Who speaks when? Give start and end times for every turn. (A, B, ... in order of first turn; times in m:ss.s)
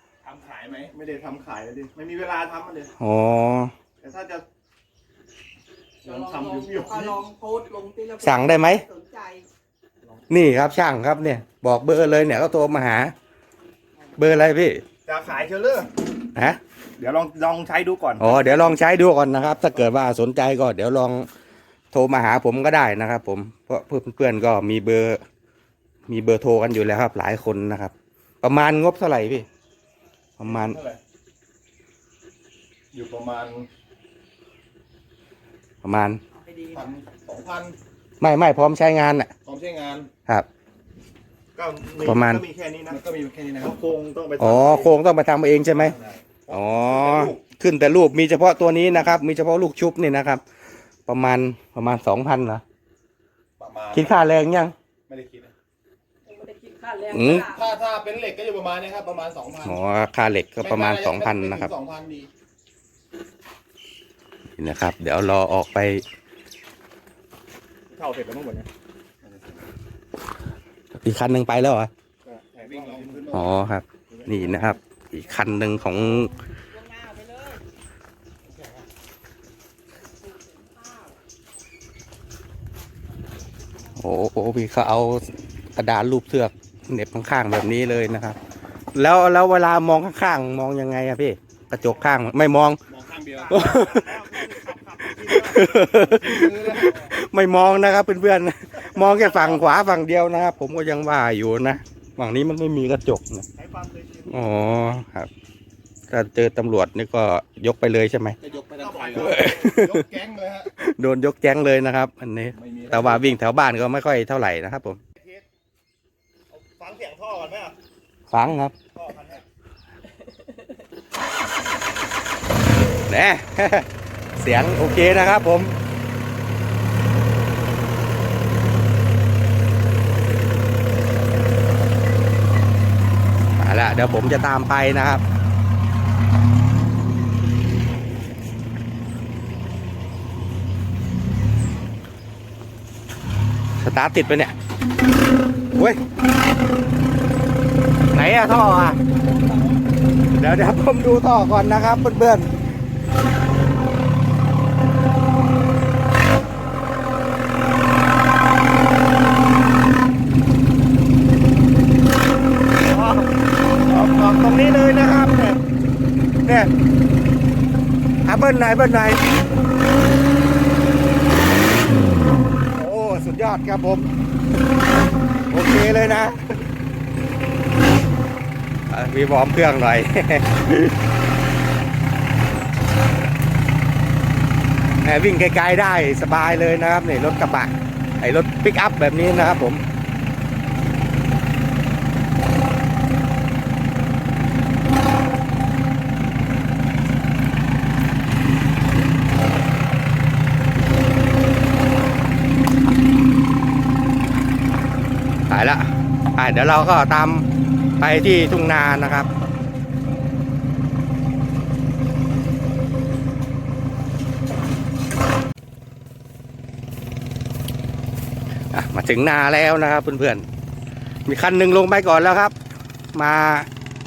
0:00.2-0:02.9 A
0:03.0-0:03.7 B
0:04.0-0:04.4 A
0:06.0-0:07.2 A
0:06.0-0:09.4 C
0:08.2-0:08.8 B
0:10.3-0:13.1 B
0:14.2-0:14.8 B
0:15.0-0:15.9 A
0:16.3-0:16.6 B
0:17.0-0:18.8 A
0:18.2-0:21.3 B
0:21.9-0:25.2 B
0:26.1-0:29.5 B
0:30.4-0:30.8 B
0:30.4-0:31.0 A
0:32.9-0:33.7 A
0:35.8-0:36.2 B
0:36.4-0:36.9 C
0:36.7-0:37.8 A
0:38.2-0:39.3 B
0:39.4-0:40.1 A
0:41.6-0:45.0 A
0:42.0-0:42.4 B
0:44.4-0:46.0 B
0:45.8-0:47.4 A
0:46.5-0:50.4 B
0:51.1-0:52.6 B
0:53.6-0:54.1 A
0:53.9-0:54.7 B
0:55.1-0:55.5 A
0:56.2-0:57.6 C
0:57.1-0:57.5 B
0:57.2-0:59.8 A
0:59.6-1:01.7 B
1:00.6-1:02.3 A
1:04.6-1:06.0 B
1:07.9-1:08.7 A
1:11.0-1:11.9 B
1:12.2-1:14.7 A
1:13.3-1:16.3 B
1:16.7-1:17.6 C
1:18.4-1:18.8 A
1:20.5-1:21.0 C
1:24.0-1:28.4 B
1:28.9-1:32.8 B
1:32.9-1:37.1 A
1:33.5-1:34.3 B
1:35.0-1:43.5 B
1:39.0-1:39.6 A
1:43.6-1:44.4 A
1:44.3-1:45.3 B
1:46.1-1:48.4 B
1:48.4-1:50.7 A
1:49.2-1:50.0 B
1:50.8-1:55.0 B
1:52.6-1:53.4 A
1:56.5-1:57.8 A
1:58.3-1:58.8 B
1:58.9-1:59.4 A
2:03.1-2:03.9 B
2:04.4-2:05.7 B
2:13.6-2:15.2 B
2:23.8-2:24.5 B
2:28.1-2:29.0 B
2:29.2-2:29.8 A
2:30.3-2:32.5 B
2:42.8-2:43.3 B
2:43.8-2:45.6 B
2:46.4-2:46.7 B
2:48.2-2:49.2 B
2:52.7-2:54.1 B
2:55.5-2:56.4 B
2:58.9-3:01.0 B
3:05.0-3:09.8 B
3:25.5-3:27.4 B
3:28.0-3:29.3 B
3:38.7-3:40.4 B
3:41.2-3:42.5 B
3:43.1-3:43.7 B